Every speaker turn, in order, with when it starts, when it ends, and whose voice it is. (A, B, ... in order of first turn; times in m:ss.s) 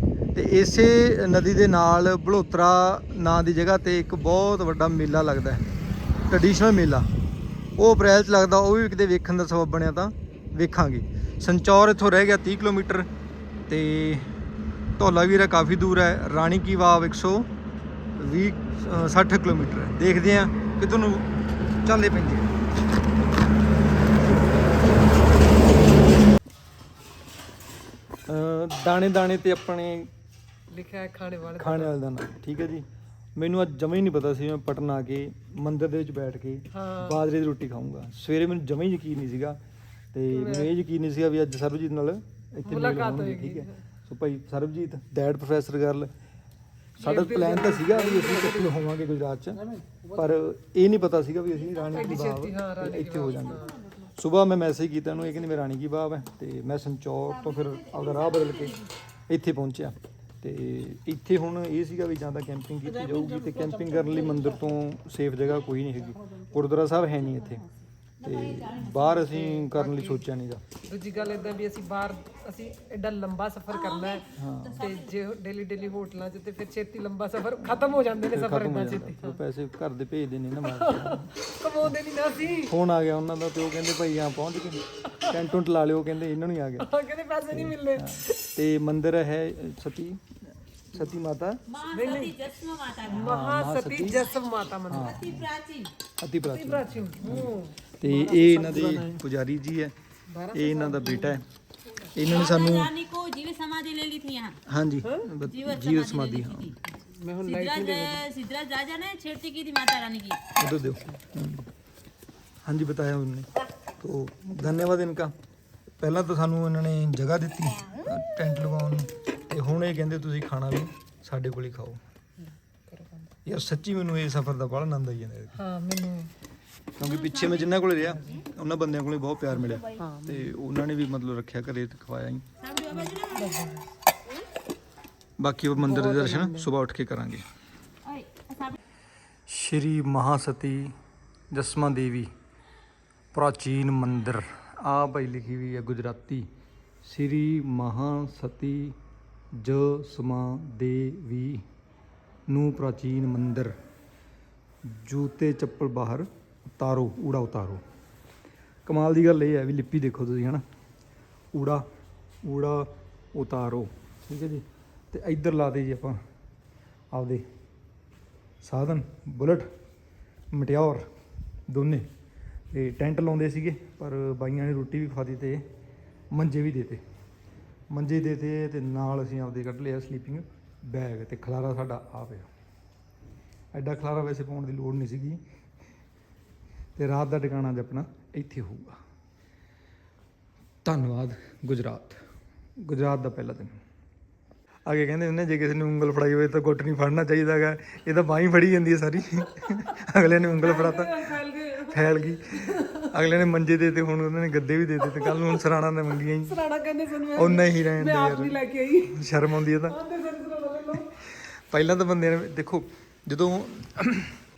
0:00.3-0:05.6 A
0:06.3-0:07.1 A
0:07.8-0:13.1 A
0:13.7-0:14.3 A
0:15.0-0:17.5 A
0:18.2-0:21.3 A
0:21.8-0:22.5 A
0:28.3-0:30.1 A
0:30.7-0:31.9 B
0:31.6-0:39.6 A
0:36.7-0:37.2 B
0:40.1-0:46.1 A
0:40.3-0:40.7 B
0:42.7-0:43.7 B
0:47.0-0:49.6 A
0:47.0-0:48.7 B
0:49.6-0:50.1 B
0:50.1-1:07.6 A
0:51.9-0:53.8 B
1:08.2-1:10.6 A
1:08.2-1:09.0 C
1:09.1-1:10.2 B
1:10.9-1:14.2 B
1:13.7-1:15.1 C
1:14.4-1:14.8 A
1:14.8-1:19.4 B
1:18.2-1:21.3 A
1:20.8-1:22.7 B
1:22.6-1:26.9 A
1:26.8-1:28.1 B
1:27.5-1:30.3 A
1:30.9-1:31.6 A
1:31.7-1:33.3 C
1:31.9-1:32.3 B
1:33.1-1:34.3 A
1:33.2-1:35.2 B
1:34.9-1:35.5 A
1:34.9-1:35.9 C
1:36.2-1:39.9 A
1:36.5-1:39.2 B
1:40.3-1:41.3 B
1:40.5-1:41.4 A
1:42.1-1:42.9 A
1:42.2-1:46.8 C
1:44.7-1:46.7 A
1:47.2-1:48.2 B
1:47.4-1:50.4 C
1:50.6-1:51.6 A
1:52.6-1:53.5 A
1:54.0-1:55.3 A
1:56.0-2:02.0 A
2:02.9-2:03.3 B
2:03.4-2:05.6 A
2:05.6-2:06.3 B
2:07.0-2:12.4 A
2:07.0-2:07.6 C
2:10.0-2:10.4 B
2:12.6-2:13.6 C
2:13.2-2:13.8 B
2:15.4-2:17.4 A
2:15.8-2:16.7 B
2:18.0-2:18.8 C
2:19.5-2:20.9 A
2:21.5-2:22.3 A
2:23.3-2:26.5 A
2:27.0-2:28.9 A
2:29.5-2:31.6 A
2:32.5-2:33.7 A
2:34.8-2:36.3 A
2:36.8-2:37.8 A
2:38.8-2:40.6 A
2:41.5-2:41.8 A
2:42.4-2:46.2 A
2:47.1-2:47.4 A
2:48.6-2:49.7 A
2:50.5-2:51.1 A
2:51.7-2:52.1 A
2:52.7-2:55.6 A
2:56.3-2:57.0 A
2:57.9-3:02.5 A
3:03.7-3:05.4 A
3:07.0-3:09.0 A
3:10.8-3:12.2 A
3:12.8-3:13.8 A
3:14.8-3:21.3 A
3:20.6-3:22.0 B
3:21.9-3:26.6 A
3:26.5-3:29.2 B
3:27.3-3:30.0 A
3:29.9-3:31.1 B
3:31.4-3:34.3 A